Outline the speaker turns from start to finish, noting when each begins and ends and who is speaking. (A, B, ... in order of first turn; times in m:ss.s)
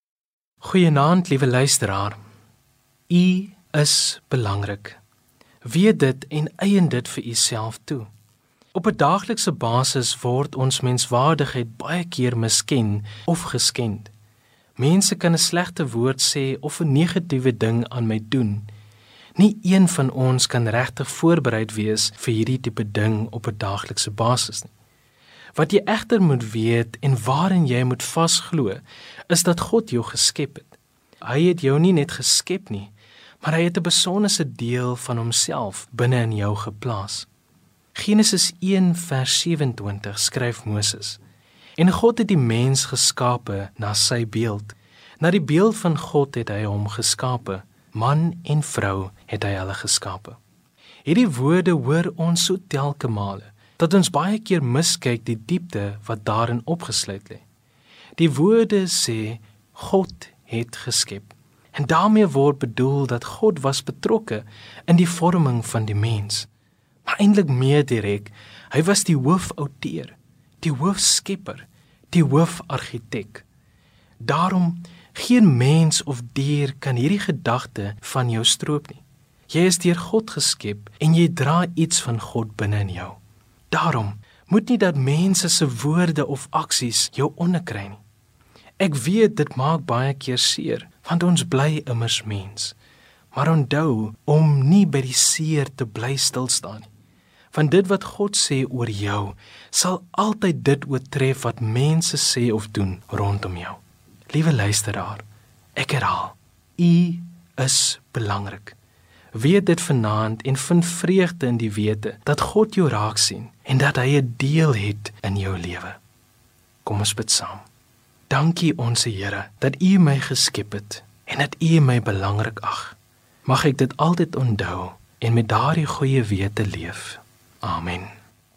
0:00.6-0:02.2 A
0:03.1-0:05.0 A
0:05.6-0:08.1 A
0:08.7-0:14.1 A
0:14.8-0:18.7 A
0:19.4-0:24.7 A
0:25.5-0:37.3 A
0:37.9-0:41.2 A
0:41.8-0:50.4 A
0:51.0-0:57.4 A
0:58.2-1:06.5 A
1:07.0-1:13.4 A
1:14.2-1:23.2 A
1:23.7-1:28.0 A
1:28.8-1:32.8 A
1:33.3-1:36.9 A
1:37.5-1:45.2 A
1:45.8-1:48.8 A
1:49.3-1:56.0 A
1:56.8-1:57.6 A
1:58.3-2:08.1 A